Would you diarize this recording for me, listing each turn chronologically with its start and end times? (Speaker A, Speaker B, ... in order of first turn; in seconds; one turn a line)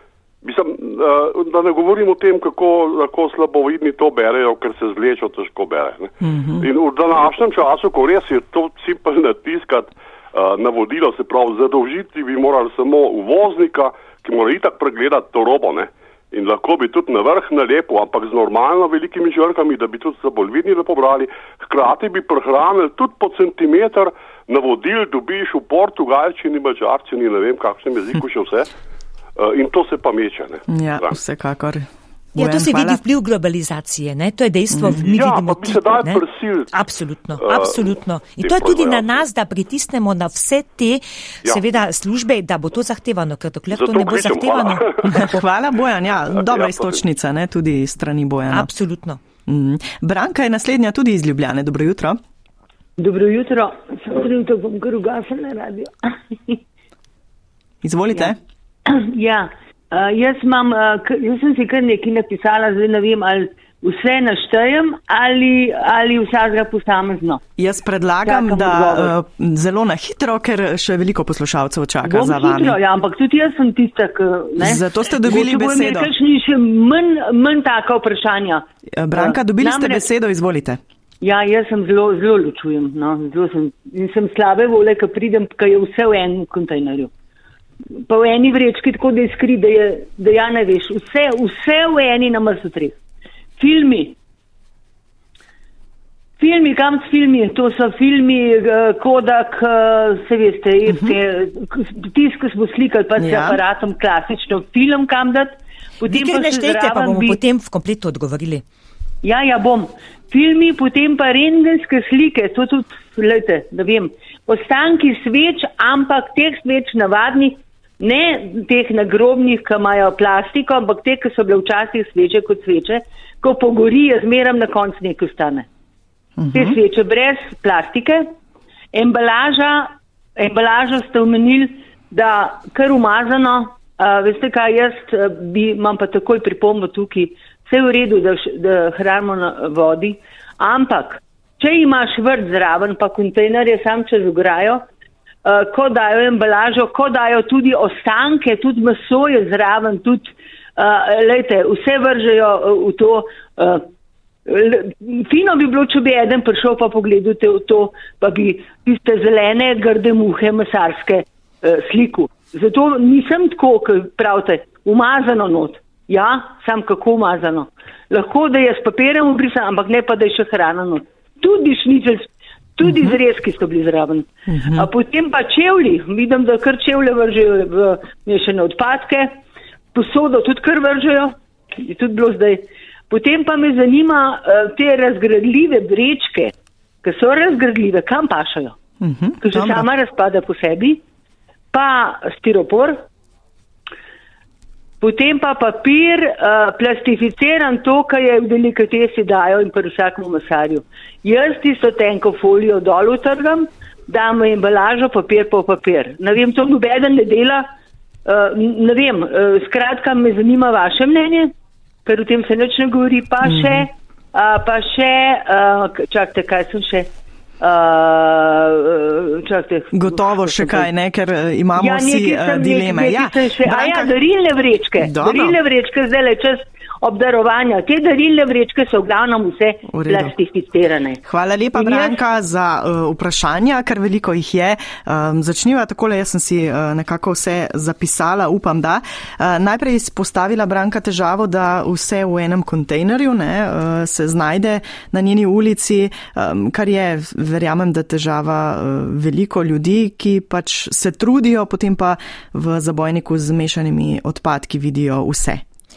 Speaker A: 0.4-28.7
Speaker B: 6.2-6.7
Speaker A: 29.4-31.1
Speaker B: 30.7-33.0
Speaker C: 32.4-45.3
Speaker B: 34.7-35.1
Speaker A: 35.0-36.7
Speaker A: 37.4-37.8
Speaker A: 38.4-39.1
Speaker A: 43.7-45.3
Speaker B: 45.0-48.7
Speaker A: 46.4-47.0
Speaker C: 48.5-49.2
Speaker B: 49.5-52.2
Speaker D: 53.0-56.6
Speaker B: 57.8-58.4
Speaker D: 58.9-67.4
Speaker B: 67.6-72.8
Speaker D: 68.2-69.1
Speaker D: 72.0-80.0
Speaker B: 74.6-76.1
Speaker B: 79.0-80.8
Speaker D: 81.2-87.1
Speaker D: 87.9-93.0
Speaker D: 93.6-94.2
Speaker D: 96.4-107.4
Speaker B: 100.9-101.2
Speaker B: 103.2-103.6
Speaker C: 106.0-108.6
Speaker D: 109.2-125.7
Speaker B: 126.4-126.8
Speaker D: 126.5-128.3
Speaker D: 128.9-144.8
Speaker D: 145.4-153.9
Speaker D: 154.4-179.4
Speaker B: 172.8-173.2
Speaker B: 174.5-174.9
Speaker D: 179.9-188.8
Speaker B: 189.0-189.9
Speaker D: 189.4-191.0
Speaker D: 191.7-193.1
Speaker D: 195.0-207.7
Speaker D: 208.2-211.5
Speaker D: 212.0-220.9
Speaker B: 213.4-213.9
Speaker B: 219.9-224.1
Speaker D: 221.8-231.2
Speaker B: 225.0-225.6
Speaker B: 229.9-230.3
Speaker B: 231.2-255.6
Speaker D: 231.7-232.2